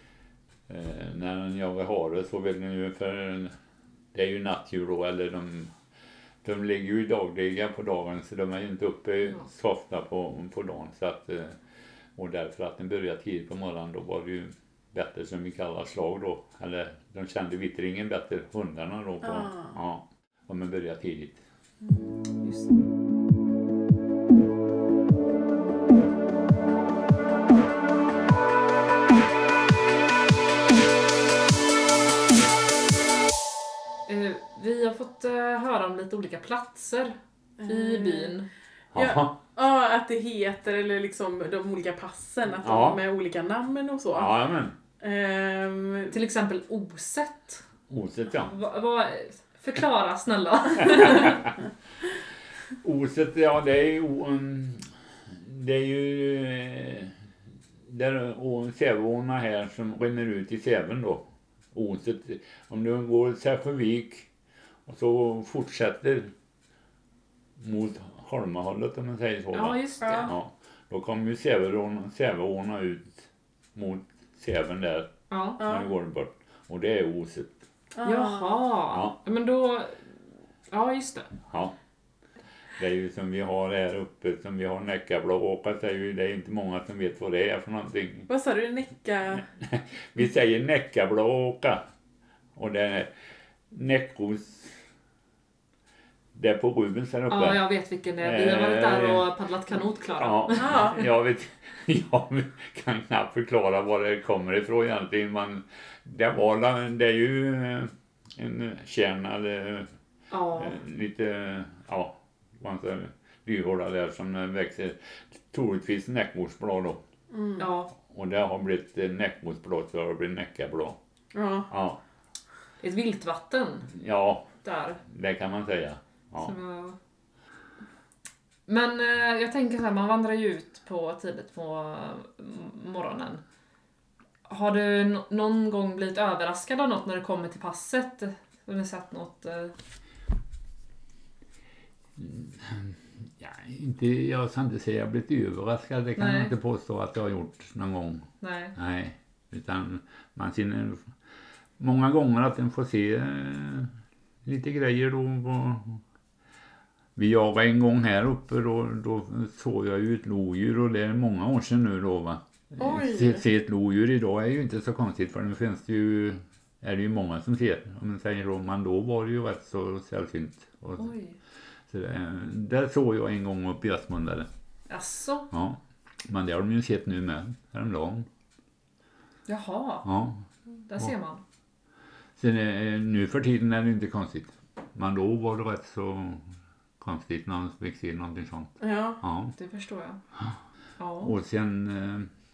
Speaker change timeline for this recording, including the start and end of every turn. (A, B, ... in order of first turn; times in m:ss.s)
0:00.7-0:03.5 A
0:04.1-0:05.7 A
0:06.4-0:11.6 A
0:12.2-0:21.4 A
0:19.2-0:19.7 B
0:22.4-0:22.8 C
0:34.1-0:38.5 C
0:37.6-0:38.3 B
0:38.9-0:39.3 A
0:38.9-0:44.4 B
0:42.6-0:43.0 A
0:44.1-0:44.7 A
0:45.0-0:46.1 B
0:46.1-0:47.6 C
0:47.9-0:48.5 A
0:48.4-0:51.5 C
0:52.8-0:57.1 A
0:57.8-1:04.3 A
1:04.8-1:06.3 A
1:07.6-1:17.6 A
1:09.5-1:10.3 C
1:10.0-1:10.3 B
1:15.3-1:15.6 C
1:15.6-1:15.9 B
1:18.0-1:18.6 B
1:18.0-1:20.1 C
1:18.9-1:19.1 A
1:20.7-1:21.3 C
1:21.5-1:21.7 A
1:22.8-1:28.3 A
1:28.3-1:29.4 B
1:29.6-1:31.8 A
1:32.6-1:33.1 A
1:33.7-1:34.8 A
1:36.3-1:37.6 A
1:37.3-1:40.9 C
1:38.2-1:39.2 A
1:40.2-1:49.9 A
1:40.5-1:41.0 B
1:50.3-1:50.8 C
1:50.5-1:57.0 A
1:57.3-1:57.6 B
1:57.6-1:57.9 C
1:58.0-2:01.0 A
2:01.3-2:01.7 B
2:01.7-2:02.0 A
2:02.8-2:03.9 C
2:03.9-2:04.5 A
2:04.6-2:05.0 C
2:05.0-2:06.5 A
2:06.4-2:07.0 C
2:08.7-2:13.4 C
2:14.5-2:19.7 C
2:22.2-2:31.1 A
2:26.2-2:26.5 C
2:28.4-2:28.7 C
2:31.8-2:33.9 A
2:34.4-2:36.0 A
2:37.2-2:51.1 A
2:42.8-2:43.4 B
2:51.0-2:51.4 C
2:51.9-2:54.5 A
2:54.9-2:55.5 C
2:55.5-2:58.3 A
2:59.5-3:00.1 C
3:00.0-3:00.4 A
3:00.8-3:01.4 C
3:02.4-3:06.4 A
3:07.0-3:09.5 A
3:08.8-3:09.2 B
3:09.6-3:10.2 C
3:11.0-3:11.3 C
3:11.2-3:12.3 A